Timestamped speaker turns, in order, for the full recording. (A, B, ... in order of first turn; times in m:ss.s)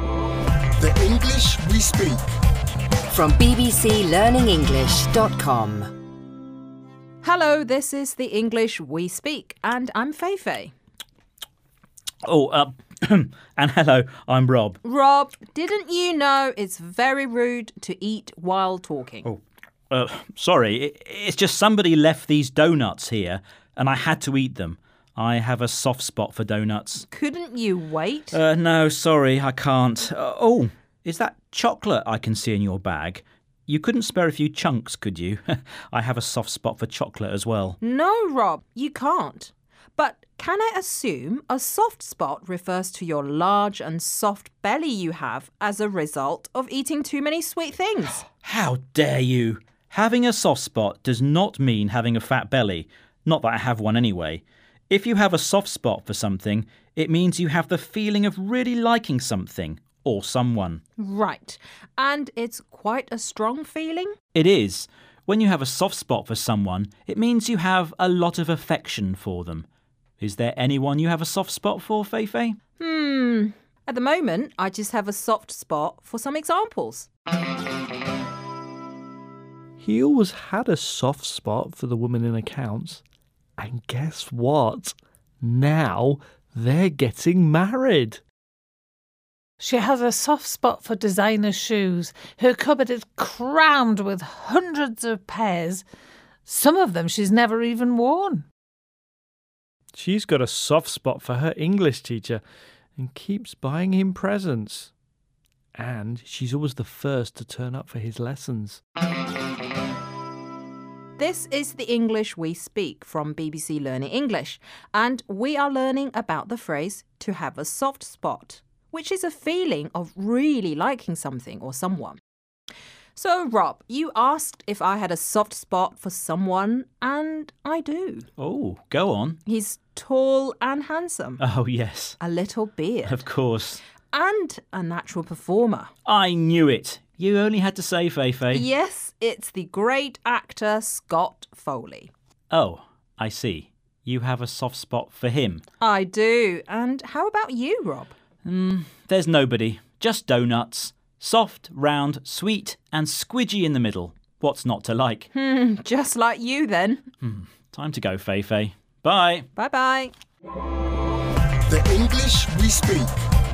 0:00.8-0:02.2 A
0:03.3-0:05.7 B
0:07.2-0:10.7 C
0:12.2-0:14.8 D
0:14.8-0:19.3 C
0:19.2-0:27.0 D
0:27.1-0:28.4 C
0:28.3-0:37.8 D
0:37.8-0:48.2 C
0:48.2-1:00.8 D
1:01.0-1:04.2 C
1:04.3-1:09.7 D
1:10.2-1:12.6 D
1:12.8-1:17.1 C
1:19.8-1:23.0 E
1:23.6-1:28.2 E
1:29.6-1:35.8 F
1:36.5-1:38.4 F
1:39.9-1:42.4 E
1:43.0-1:44.9 E
1:45.8-1:48.8 E
1:51.2-2:02.2 C
2:03.2-2:08.3 C
2:08.4-2:09.4 D
2:09.5-2:11.4 C
2:11.4-2:12.2 D
2:12.2-2:13.2 C
2:13.0-2:13.8 D
2:14.1-2:15.9 C
2:16.1-2:18.7 D
2:18.5-2:22.1 C
2:22.5-2:25.6 D
2:25.8-2:28.1 C
2:28.4-2:35.3 D
2:35.3-2:37.1 C
2:37.2-2:39.5 D
2:39.6-2:40.1 C
2:41.7-2:43.2 A